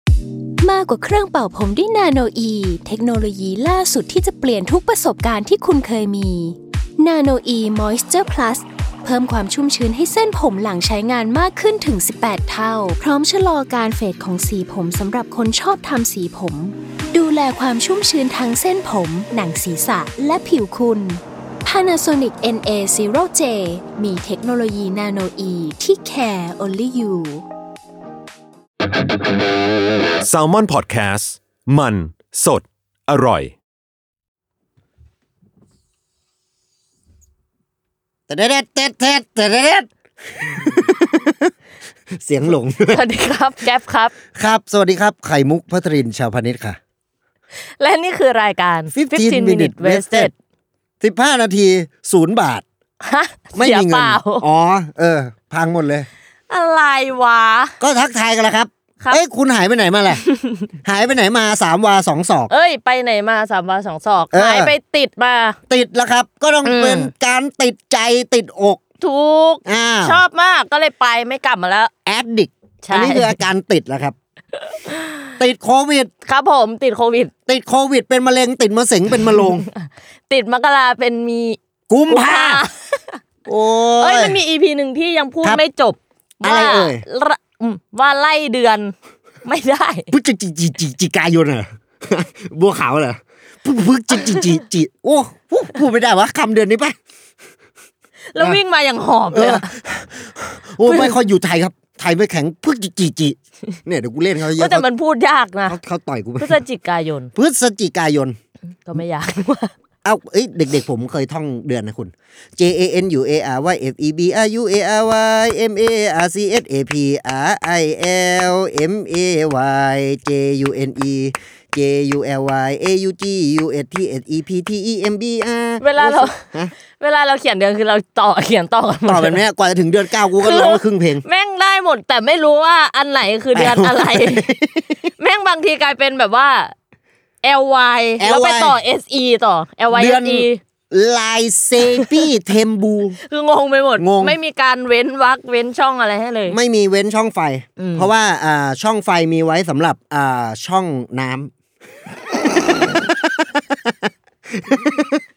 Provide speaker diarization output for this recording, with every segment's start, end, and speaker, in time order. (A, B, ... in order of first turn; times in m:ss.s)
0:00.6-0:27.4 A
0:30.2-0:33.6 B
0:38.3-0:41.5 C
0:42.2-0:43.0 C
0:42.9-0:44.2 D
0:44.4-0:46.8 C
0:47.8-0:50.3 D
0:48.9-0:50.3 C
0:51.0-0:52.6 C
0:53.0-0:54.4 D
0:53.6-0:56.1 C
0:56.5-0:57.7 D
0:57.8-1:00.2 C
1:00.1-1:00.6 D
1:00.8-1:02.5 C
1:02.5-1:05.6 D
1:04.3-1:04.8 C
1:05.7-1:08.8 C
1:06.6-1:07.1 D
1:09.0-1:11.9 D
1:09.7-1:10.2 C
1:12.1-1:14.2 C
1:12.8-1:13.4 D
1:14.8-1:15.1 D
1:15.4-1:16.1 C
1:16.2-1:17.3 D
1:17.5-1:19.7 C
1:19.2-1:23.2 D
1:21.9-1:22.6 C
1:23.5-1:24.4 C
1:24.0-1:28.9 D
1:26.4-1:27.0 C
1:29.4-1:30.1 D
1:30.1-1:37.0 C
1:38.3-1:39.7 D
1:39.3-1:44.9 C
1:40.8-1:41.2 D
1:44.6-1:45.8 D
1:45.7-1:46.6 C
1:46.4-1:47.3 D
1:47.4-1:48.4 C
1:48.8-1:49.7 D
1:50.0-2:06.7 C
2:05.8-2:09.4 D
2:09.0-2:11.2 C
2:10.4-2:14.5 D
2:13.5-2:15.0 C
2:15.2-2:16.8 D
2:17.4-2:20.6 D
2:18.2-2:18.8 C
2:19.9-2:23.2 C
2:21.8-2:22.3 D
2:23.2-2:26.6 D
2:24.0-2:24.4 C
2:26.5-2:31.5 C
2:27.8-2:28.1 D
2:32.4-2:34.0 C
2:34.6-2:35.2 C